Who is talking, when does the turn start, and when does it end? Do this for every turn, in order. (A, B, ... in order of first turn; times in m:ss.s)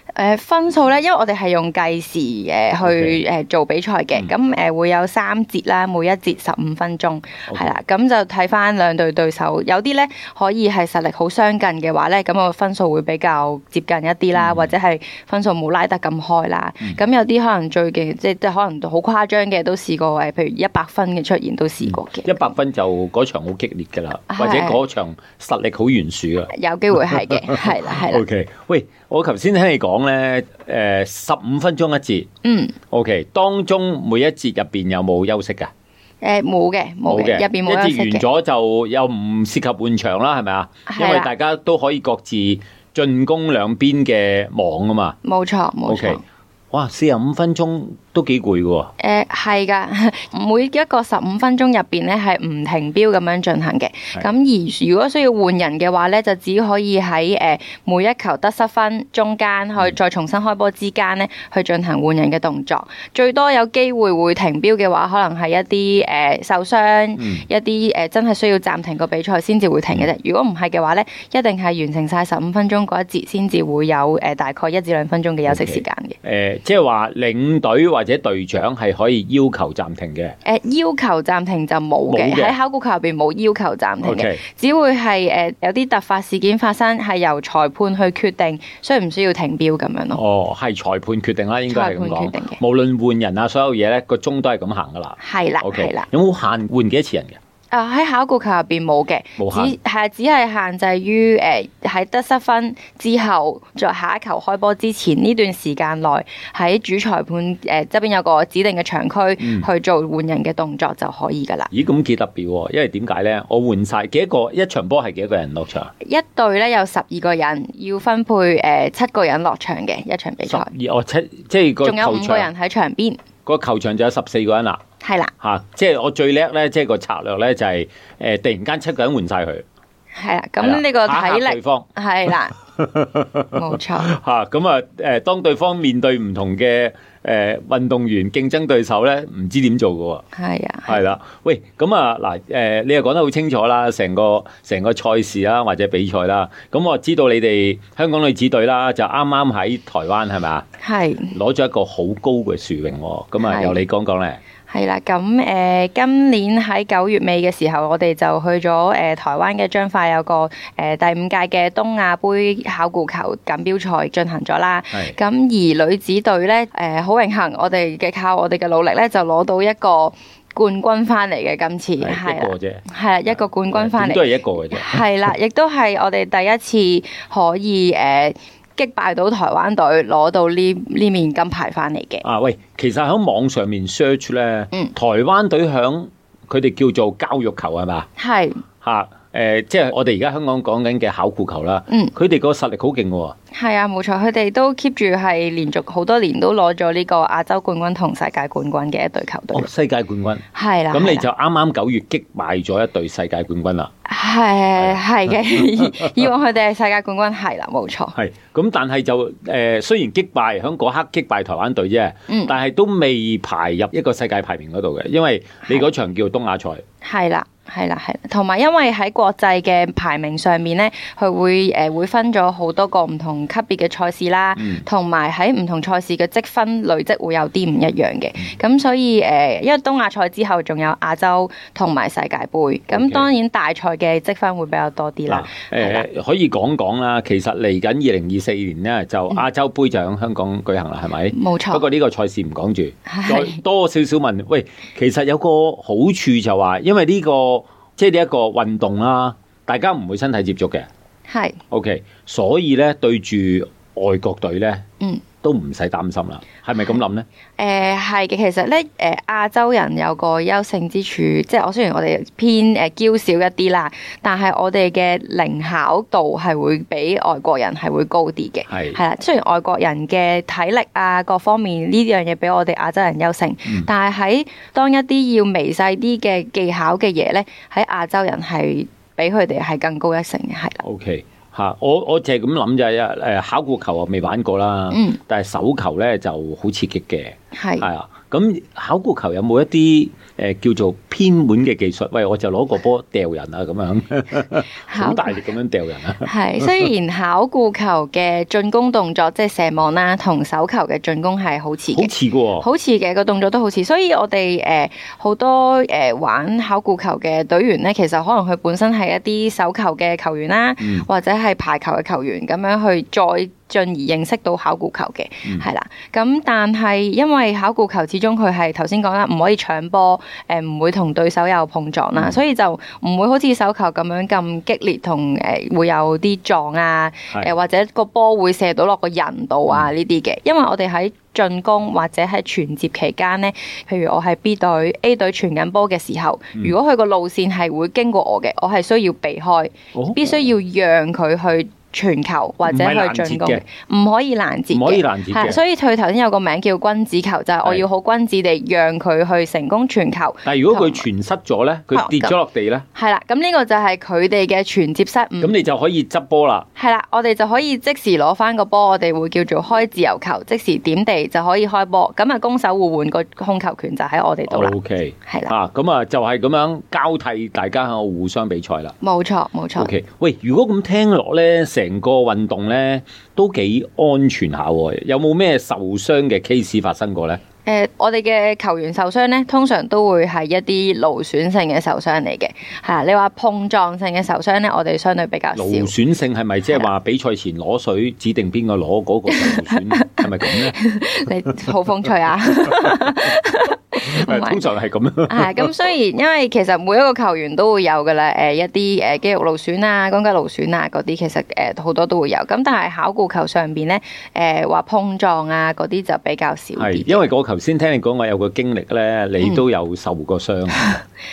0:00.2-0:22.5 A
0:02.8-0:03.2 B
0:07.5-0:07.7 B
0:14.4-0:14.7 B
0:21.8-0:32.3 B
0:24.3-0:24.8 A
0:26.5-0:28.2 A
0:32.4-0:32.7 A
0:32.9-0:35.7 B
0:36.2-0:38.2 A
0:37.1-0:45.2 B
0:40.9-0:41.3 A
0:45.2-0:46.2 A
0:45.9-0:46.2 B
0:46.7-0:48.9 B
0:49.0-1:16.2 A
1:07.2-1:07.4 B
1:15.5-1:20.3 B
1:20.4-1:30.2 A
1:22.1-1:22.6 B
1:24.0-1:24.4 B
1:30.2-1:37.4 B
1:31.7-1:32.6 A
1:35.2-1:36.0 A
1:37.7-1:51.7 A
1:39.4-1:39.7 B
1:49.4-1:49.7 B
1:51.7-1:55.9 B
1:56.0-2:00.7 A
2:00.5-2:02.5 B
2:01.8-2:03.2 A
2:03.4-2:04.8 B
2:05.0-2:05.3 A
2:05.4-2:09.6 B
2:10.1-2:12.5 A
2:10.6-2:20.2 B
2:13.5-2:14.1 A
2:20.3-2:21.0 A
2:20.9-2:30.6 B
2:30.8-2:31.3 A
2:31.3-2:34.4 B
2:33.4-2:33.8 A
2:34.7-3:02.2 A
2:52.0-2:55.1 B
3:02.2-3:08.1 B
3:08.2-3:08.6 A
3:08.8-3:13.3 B
3:13.5-3:19.7 A
3:19.5-3:23.9 B
3:20.5-3:21.2 A
3:24.0-3:28.1 A
3:24.8-3:26.3 B
3:28.1-3:36.8 B
3:37.0-3:56.0 A
3:44.6-3:44.8 B
3:52.9-3:53.3 B
3:55.3-4:10.9 B
4:01.3-4:01.8 A
4:03.1-4:03.6 A
4:11.3-4:11.6 A
4:11.7-4:14.8 B
4:15.4-4:17.2 B
4:17.6-4:40.8 A
4:28.7-4:29.0 B
4:40.8-4:56.9 B
4:44.9-4:45.2 A
4:47.5-4:47.9 A
4:54.9-4:55.4 A
4:56.2-5:51.0 A
5:01.9-5:02.6 B
5:39.9-5:40.4 B
5:42.7-5:43.6 B
5:44.7-5:45.6 B
5:50.4-5:52.8 B
5:51.9-5:52.3 A
5:52.9-5:55.6 A
5:55.4-5:56.7 B
5:56.8-6:04.7 A
6:04.5-6:08.9 B
6:05.2-6:05.5 A
6:09.0-6:09.9 A
6:09.8-6:17.4 B
6:17.6-6:25.9 A
6:25.5-6:30.9 B
6:29.3-6:34.6 A
6:32.7-6:33.3 B
6:34.0-6:35.8 B
6:35.3-6:47.2 A
6:46.8-6:50.8 B
6:50.7-6:51.0 A